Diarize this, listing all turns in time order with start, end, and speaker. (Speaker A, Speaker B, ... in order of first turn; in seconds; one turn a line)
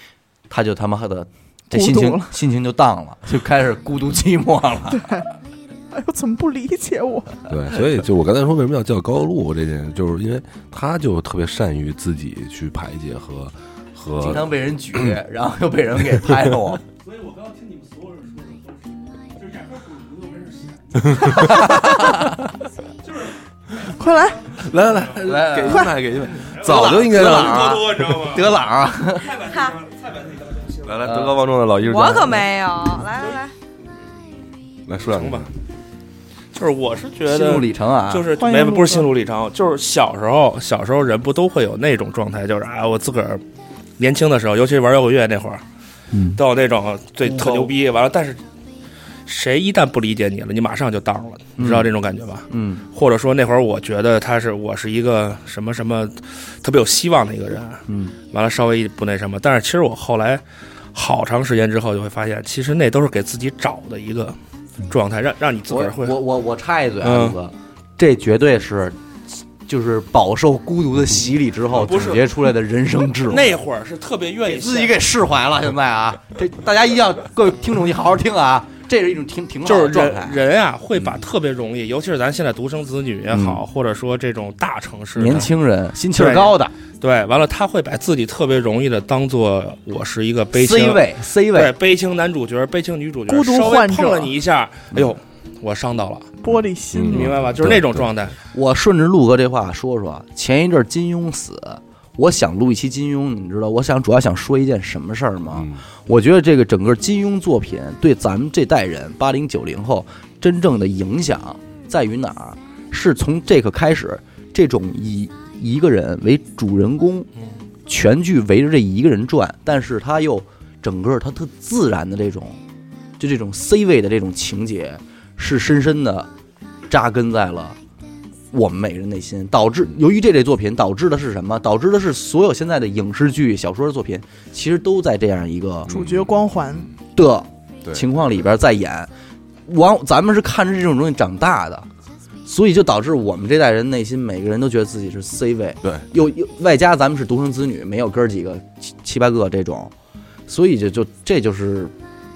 Speaker A: 0.5-5.1
Speaker B: 1.7-2.3
Speaker B: 4.9-5.3
Speaker B: 5.9-7.4
Speaker C: 7.5-14.5
Speaker A: 14.2-16.8
Speaker A: 21.4-21.7
Speaker B: 23.8-24.5
Speaker C: 24.6-27.7
Speaker A: 25.2-25.9
Speaker A: 26.5-29.4
Speaker D: 27.0-28.4
Speaker E: 29.4-29.8
Speaker C: 30.8-32.5
Speaker A: 31.0-31.4
Speaker E: 31.8-33.5
Speaker C: 34.9-35.5
Speaker D: 35.1-35.5
Speaker D: 36.5-43.4
Speaker A: 37.2-38.3
Speaker B: 38.3-39.1
Speaker D: 44.0-45.6
Speaker A: 46.1-46.4
Speaker D: 46.3-48.4
Speaker A: 47.2-47.7
Speaker D: 49.2-64.4
Speaker A: 51.6-51.9
Speaker A: 52.5-52.8
Speaker A: 57.9-58.1
Speaker D: 64.9-66.2
Speaker A: 65.7-69.0
Speaker D: 67.0-67.4
Speaker A: 69.6-73.6
Speaker D: 71.7-72.3
Speaker D: 73.3-75.0
Speaker A: 74.4-80.4
Speaker D: 79.6-85.5
Speaker A: 83.3-83.6
Speaker A: 85.1-86.7
Speaker D: 86.1-96.3
Speaker A: 90.5-91.8
Speaker B: 93.3-94.3
Speaker B: 96.4-97.5
Speaker C: 96.9-98.1
Speaker D: 97.1-98.3
Speaker A: 98.5-117.3
Speaker C: 105.5-105.8
Speaker A: 117.9-122.6
Speaker A: 123.2-126.3
Speaker A: 126.9-127.8
Speaker A: 128.5-136.0
Speaker C: 135.9-136.4
Speaker B: 135.9-136.9
Speaker A: 137.1-139.1
Speaker A: 139.7-141.9
Speaker A: 142.4-149.9
Speaker A: 150.5-151.9